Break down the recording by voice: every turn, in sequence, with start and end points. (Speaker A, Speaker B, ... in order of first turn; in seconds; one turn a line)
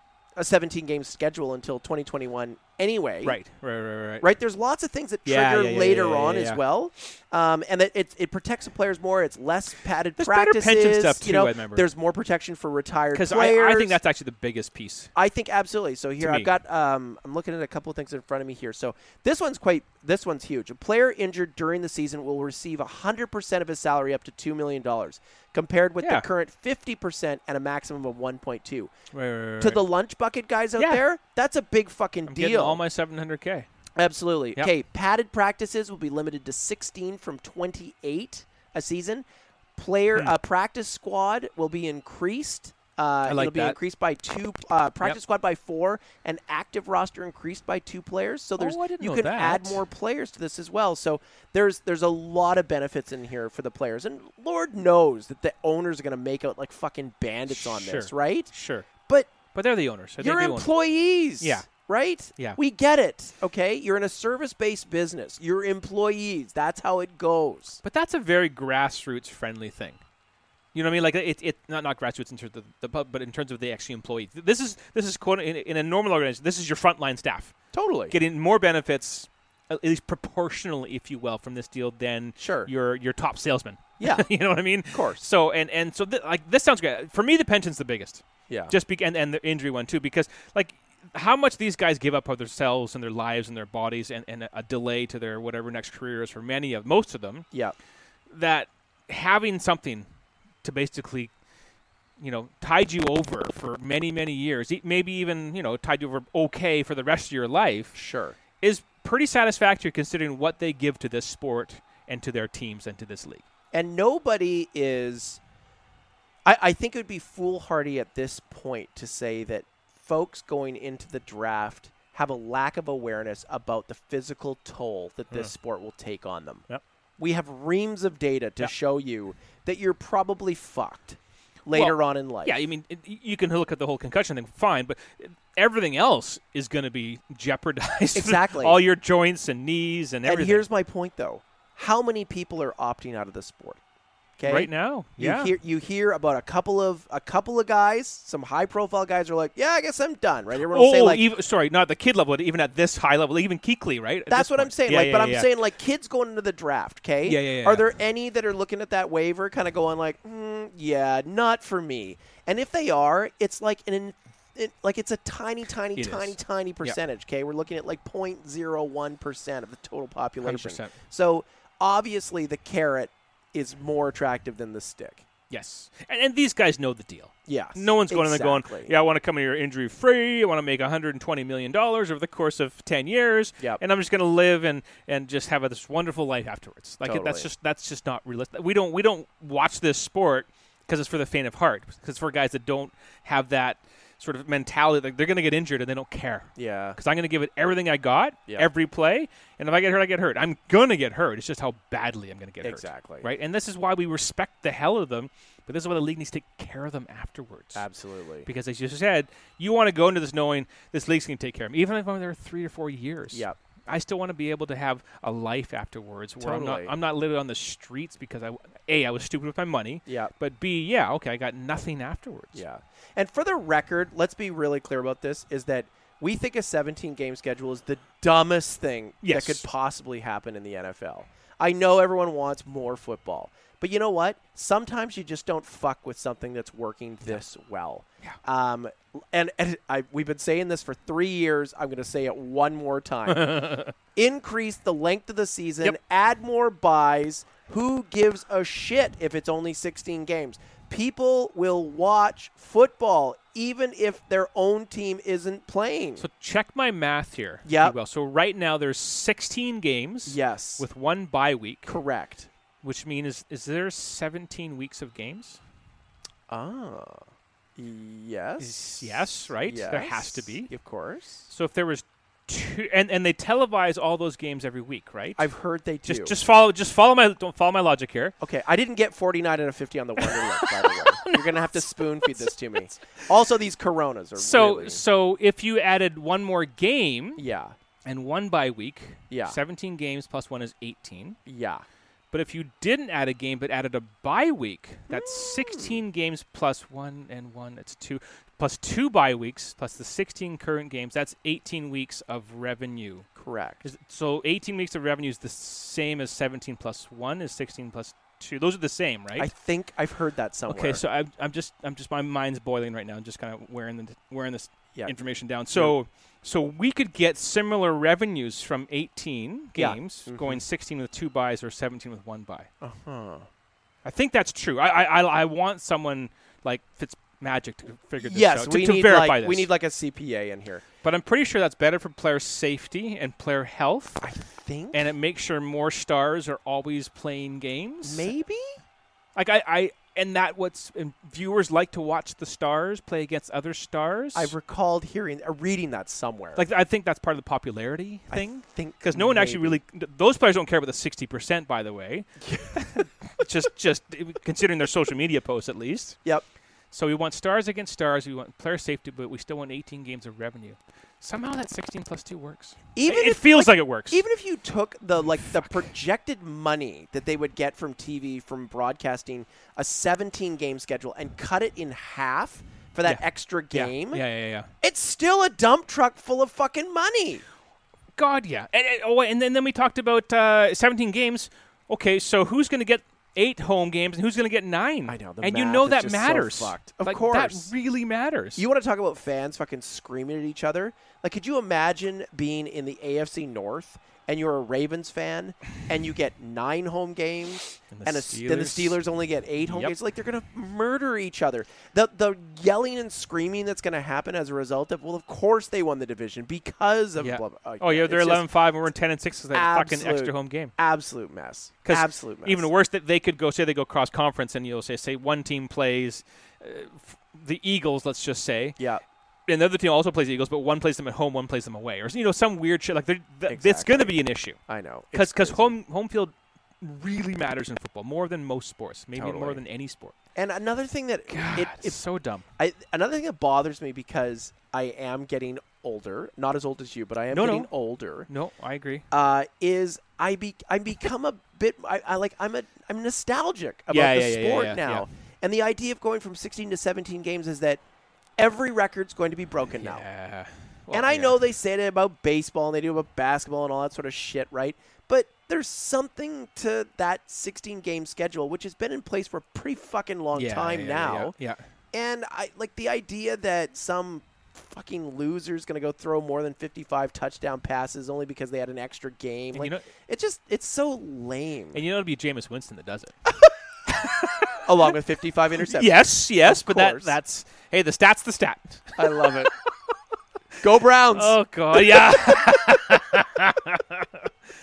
Speaker A: 0.3-3.4
Speaker B: 3.2-4.3
Speaker A: 4.2-14.0
Speaker B: 5.2-6.6
Speaker B: 10.2-11.9
Speaker B: 13.1-15.1
Speaker A: 15.2-28.9
Speaker B: 16.2-16.5
Speaker B: 26.0-26.3
Speaker B: 29.1-29.8
Speaker A: 29.6-32.8
Speaker B: 30.8-31.0
Speaker B: 32.3-33.7
Speaker A: 34.0-58.5
Speaker B: 43.2-43.8
Speaker B: 48.6-49.8
Speaker B: 57.5-58.9
Speaker A: 59.1-59.3
Speaker B: 59.5-60.7
Speaker A: 60.2-67.8
Speaker B: 61.4-61.7
Speaker B: 67.8-70.0
Speaker B: 70.7-77.5
Speaker A: 77.7-78.2
Speaker B: 78.1-97.4
Speaker A: 82.4-82.7
Speaker A: 84.0-84.2
Speaker A: 84.9-85.2
Speaker A: 88.5-88.7
Speaker B: 98.3-100.0
Speaker B: 100.6-101.3
Speaker B: 102.2-108.0
Speaker A: 107.9-108.4
Speaker B: 108.6-113.4
Speaker A: 113.7-115.4
Speaker A: 116.4-126.6
Speaker A: 127.2-132.6
Speaker B: 131.7-140.6
Speaker A: 138.1-138.8
Speaker A: 140.2-143.8
Speaker A: 144.4-151.2
Speaker B: 144.4-145.5
Speaker B: 150.7-155.5
Speaker A: 154.3-175.2
Speaker B: 157.2-157.9
Speaker B: 165.9-167.0
Speaker B: 170.4-170.9
Speaker B: 175.5-207.8
Speaker A: 177.5-178.9
Speaker A: 187.0-187.5
Speaker A: 196.6-197.0
Speaker A: 202.6-203.3
Speaker A: 207.7-208.5
Speaker B: 208.4-222.6
Speaker A: 213.3-213.6
Speaker A: 216.4-216.9
Speaker A: 220.1-220.3
Speaker A: 222.5-256.3
Speaker B: 229.2-229.6
Speaker B: 243.3-243.9
Speaker B: 256.2-261.9
Speaker A: 257.6-257.9
Speaker A: 260.2-260.8
Speaker A: 261.9-262.5
Speaker B: 262.8-265.6
Speaker A: 266.5-271.5
Speaker B: 268.6-270.7
Speaker B: 271.5-275.5
Speaker A: 275.4-276.4
Speaker B: 276.1-278.3
Speaker A: 278.4-285.0
Speaker B: 280.2-281.9
Speaker B: 284.4-287.4
Speaker A: 287.4-287.7
Speaker B: 288.0-291.4
Speaker A: 289.3-289.6
Speaker A: 291.5-291.8
Speaker B: 292.3-303.3
Speaker A: 295.1-296.0
Speaker A: 303.4-303.8
Speaker B: 303.8-309.5
Speaker A: 309.4-311.0
Speaker B: 310.7-322.7
Speaker A: 319.7-320.6
Speaker A: 322.8-323.5
Speaker B: 324.0-329.7
Speaker A: 328.2-330.9
Speaker B: 331.0-334.2
Speaker A: 334.2-335.1
Speaker B: 334.9-338.3
Speaker A: 338.0-338.8
Speaker B: 339.4-344.5
Speaker A: 344.3-346.6
Speaker B: 346.6-356.2
Speaker A: 348.3-349.8
Speaker A: 352.4-352.8
Speaker B: 356.9-364.2
Speaker A: 362.9-374.2
Speaker B: 373.0-374.7
Speaker A: 374.8-377.4
Speaker B: 378.1-388.6
Speaker A: 385.1-387.7
Speaker A: 388.6-408.5
Speaker B: 397.9-399.0
Speaker B: 399.6-399.9
Speaker B: 407.2-410.7
Speaker A: 409.5-412.7
Speaker B: 411.8-418.8
Speaker A: 418.8-419.0
Speaker B: 419.5-424.6
Speaker A: 423.5-424.1
Speaker A: 424.7-425.8
Speaker B: 425.1-430.1
Speaker A: 429.1-429.6
Speaker A: 430.4-432.0
Speaker B: 431.3-432.4
Speaker A: 432.6-438.3
Speaker B: 437.3-437.7
Speaker B: 438.3-439.0
Speaker A: 439.1-447.8
Speaker B: 443.9-445.1
Speaker A: 448.4-450.0
Speaker B: 449.8-451.4
Speaker A: 450.9-461.3
Speaker B: 460.3-461.6
Speaker A: 461.9-471.8
Speaker B: 469.5-469.9
Speaker B: 471.7-473.1
Speaker B: 473.9-474.7
Speaker A: 474.6-477.2
Speaker B: 475.6-479.2
Speaker A: 479.0-479.5
Speaker A: 480.6-482.1
Speaker B: 481.1-484.3